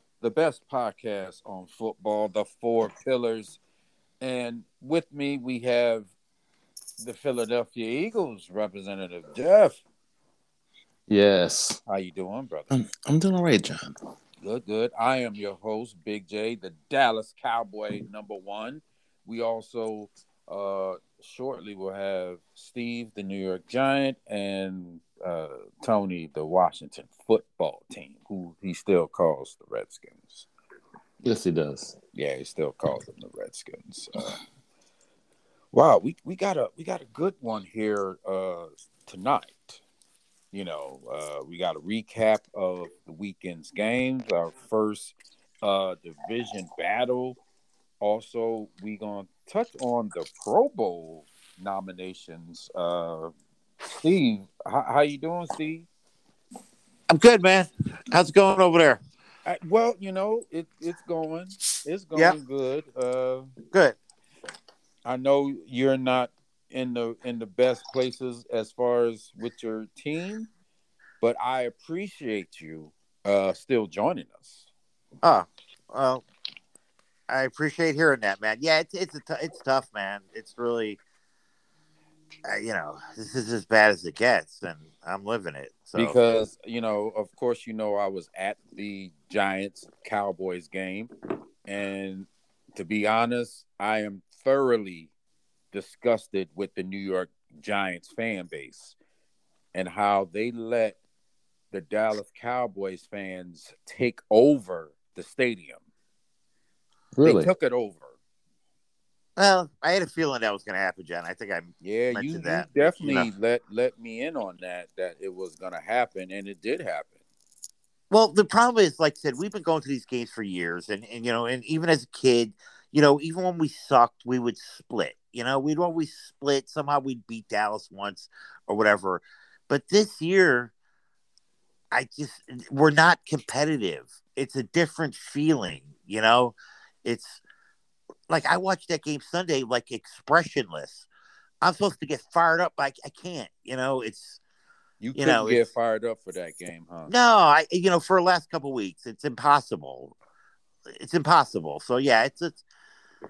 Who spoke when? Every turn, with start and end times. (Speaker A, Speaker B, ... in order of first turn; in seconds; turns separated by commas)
Speaker A: 0.2-3.6, Speaker A: 4.2-6.1, Speaker A: 7.0-9.8, Speaker B: 11.1-11.8, Speaker A: 11.9-12.7, Speaker B: 12.7-13.9, Speaker A: 14.4-30.5, Speaker B: 31.2-32.0, Speaker A: 32.1-34.4, Speaker A: 35.7-39.8, Speaker A: 40.5-47.4, Speaker A: 48.0-53.3, Speaker A: 53.9-55.9, Speaker C: 57.1-59.0, Speaker A: 59.5-63.5, Speaker C: 63.7-64.0, Speaker A: 65.0-70.5, Speaker A: 71.2-74.7, Speaker C: 75.2-76.2, Speaker C: 77.3-81.0, Speaker C: 82.5-86.2, Speaker A: 86.0-91.1, Speaker A: 91.7-95.1, Speaker A: 95.7-99.0, Speaker A: 99.7-101.0, Speaker A: 101.7-105.8, Speaker B: 107.2-107.5, Speaker A: 107.2-108.1, Speaker C: 109.4-113.3, Speaker A: 111.8-117.1, Speaker C: 118.1-130.7, Speaker C: 131.9-137.4, Speaker C: 138.3-141.1, Speaker C: 141.6-144.4, Speaker A: 145.0-147.1, Speaker C: 145.2-145.6, Speaker C: 147.1-150.1, Speaker C: 150.9-152.6